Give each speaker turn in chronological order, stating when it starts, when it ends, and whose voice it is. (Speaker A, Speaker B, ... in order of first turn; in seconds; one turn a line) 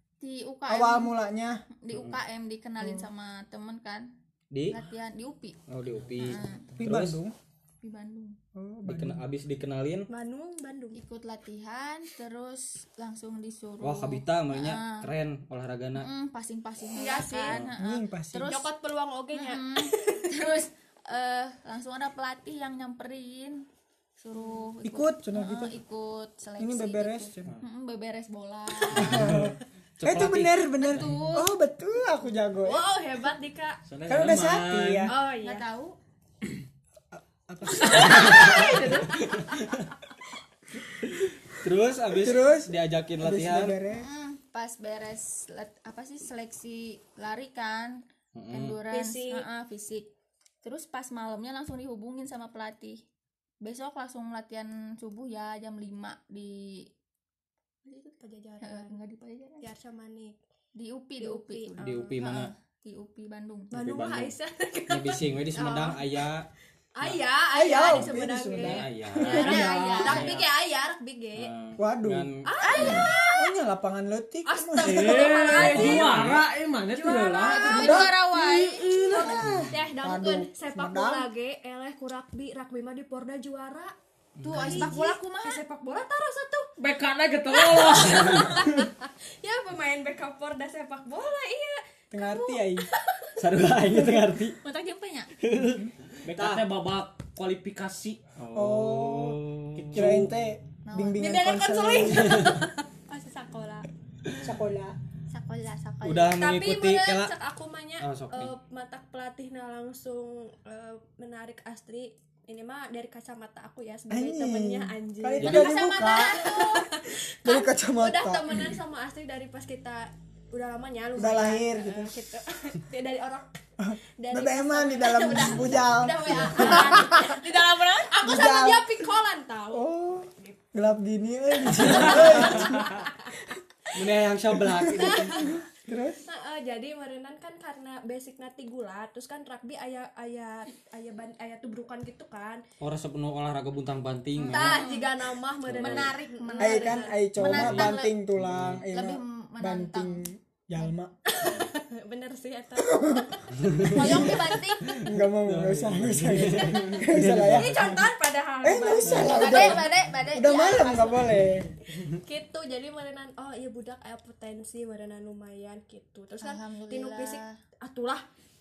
Speaker A: 0.2-1.1
Speaker B: 0.7-1.6
Speaker A: 1.8-4.1
Speaker C: 1.9-2.2
Speaker B: 2.8-3.1
Speaker C: 4.5-4.8
Speaker A: 4.7-5.6
Speaker C: 5.7-7.2
Speaker D: 6.0-6.8
Speaker A: 6.2-6.7
Speaker B: 6.8-7.3
Speaker A: 7.8-8.4
Speaker B: 8.6-9.2
Speaker C: 8.9-10.1
Speaker E: 10.1-11.0
Speaker A: 10.9-15.1
Speaker C: 13.8-16.1
Speaker A: 16.0-18.7
Speaker E: 16.9-17.6
Speaker B: 17.8-18.5
Speaker E: 18.5-20.6
Speaker A: 19.3-23.7
Speaker A: 24.2-29.3
Speaker B: 24.8-25.8
Speaker B: 26.6-27.5
Speaker B: 28.9-32.8
Speaker C: 28.9-31.2
Speaker A: 30.9-31.6
Speaker E: 32.6-33.8
Speaker D: 33.9-35.1
Speaker B: 34.1-35.1
Speaker E: 35.1-35.6
Speaker A: 35.4-36.0
Speaker B: 37.1-38.6
Speaker E: 37.7-39.8
Speaker C: 37.9-39.8
Speaker C: 41.5-43.8
Speaker B: 42.1-44.1
Speaker A: 43.9-50.1
Speaker C: 48.3-48.8
Speaker E: 48.9-49.5
Speaker A: 50.6-53.0
Speaker A: 53.6-56.9
Speaker A: 57.9-59.7
Speaker E: 58.2-59.0
Speaker E: 59.6-60.4
Speaker A: 60.8-63.7
Speaker E: 61.2-62.1
Speaker C: 61.8-62.5
Speaker C: 63.7-64.3
Speaker E: 63.7-66.3
Speaker C: 64.9-66.5
Speaker E: 67.0-71.5
Speaker B: 67.5-70.3
Speaker C: 67.9-70.5
Speaker A: 69.2-70.4
Speaker C: 71.3-72.5
Speaker B: 71.8-75.9
Speaker E: 72.5-73.5
Speaker A: 72.6-73.1
Speaker E: 74.5-76.2
Speaker D: 74.8-77.8
Speaker C: 75.5-76.5
Speaker E: 77.0-78.1
Speaker A: 77.5-79.4
Speaker B: 77.7-81.3
Speaker E: 79.0-83.9
Speaker C: 84.4-84.9
Speaker A: 84.4-85.6
Speaker E: 84.5-86.7
Speaker D: 86.8-88.7
Speaker E: 87.5-93.3
Speaker B: 92.1-92.9
Speaker C: 93.4-94.6
Speaker A: 94.6-95.3
Speaker C: 95.4-96.7
Speaker B: 95.6-95.9
Speaker D: 96.2-98.2
Speaker C: 98.4-100.3
Speaker B: 98.5-99.4
Speaker D: 99.8-100.3
Speaker B: 99.9-102.5
Speaker A: 100.9-101.3
Speaker E: 101.2-103.9
Speaker C: 102.2-102.6
Speaker B: 104.4-105.0
Speaker A: 105.3-106.4
Speaker C: 106.0-107.3
Speaker E: 106.4-123.5
Speaker C: 108.0-108.5
Speaker B: 114.1-116.6
Speaker C: 115.4-115.7
Speaker A: 115.5-116.8
Speaker B: 117.4-118.7
Speaker B: 121.2-122.1
Speaker B: 123.8-127.3
Speaker E: 124.2-129.9
Speaker B: 128.2-128.9
Speaker B: 129.7-133.0
Speaker E: 131.8-133.1
Speaker C: 132.3-132.7
Speaker C: 133.9-135.6
Speaker B: 134.6-136.2
Speaker E: 134.9-135.5
Speaker E: 136.3-142.6
Speaker C: 142.8-144.9
Speaker A: 144.4-145.1
Speaker E: 144.4-147.2
Speaker C: 145.7-146.1
Speaker A: 145.8-148.2
Speaker B: 146.6-151.1
Speaker C: 147.4-148.8
Speaker A: 148.9-150.9
Speaker E: 151.3-155.0
Speaker B: 152.8-153.3
Speaker C: 153.6-154.3
Speaker B: 153.8-158.1
Speaker A: 153.9-154.9
Speaker C: 154.9-158.0
Speaker E: 156.5-159.9
Speaker B: 158.6-161.8
Speaker C: 159.1-159.4
Speaker A: 159.3-161.3
Speaker E: 162.1-168.2
Speaker A: 166.4-167.6